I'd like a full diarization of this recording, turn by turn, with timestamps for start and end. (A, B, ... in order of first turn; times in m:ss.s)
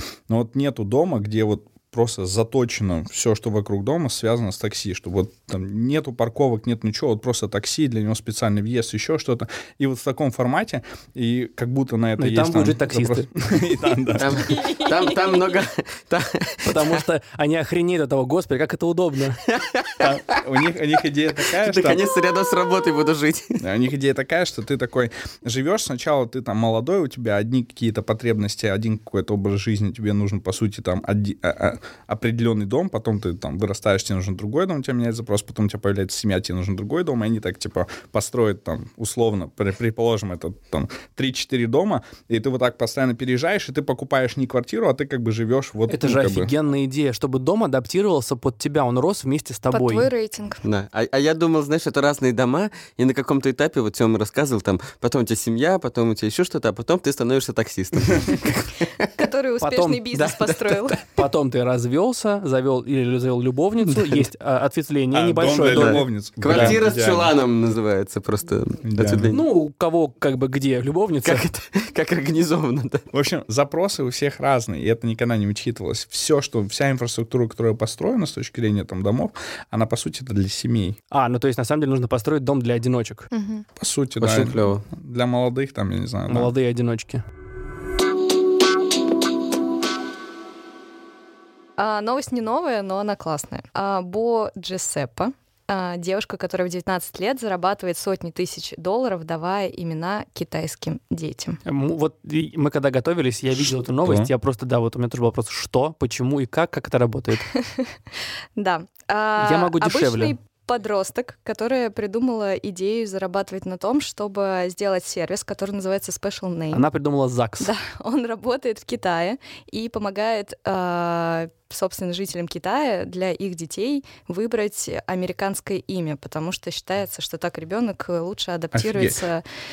0:00.3-0:14.3 A
0:12.2-0:13.3 B
0:14.2-0:17.0 C
0:14.3-0:15.6 D
0:16.6-0:19.4 B
0:19.5-0:20.4 C
0:20.0-0:22.0 A
0:21.5-0:23.6 C
0:23.6-0:46.5 A
0:45.9-0:50.1 B
0:49.7-0:50.6 D
0:50.6-0:59.2 C
0:59.2-1:01.0 D
0:59.6-1:00.3 B
1:00.2-1:01.0 C
1:01.1-1:06.8 B
1:03.8-1:04.3 C
1:05.1-1:07.3 A
1:05.7-1:09.4 C
1:08.8-1:09.4 A
1:09.3-1:11.4 B
1:11.2-1:13.0 C
1:13.1-1:21.0 A
1:21.1-1:23.3 B
1:23.3-1:23.6 D
1:23.8-1:26.5 A
1:24.2-1:24.8 C
1:26.3-1:27.2 B
1:31.8-1:41.6 D
1:41.6-1:47.5 B
1:43.6-1:44.3 A
1:47.6-1:47.9 D
1:48.6-1:56.8 D
1:49.4-1:50.3 B
1:56.7-1:57.7 B
1:57.6-2:09.4 D
2:08.7-2:09.2 A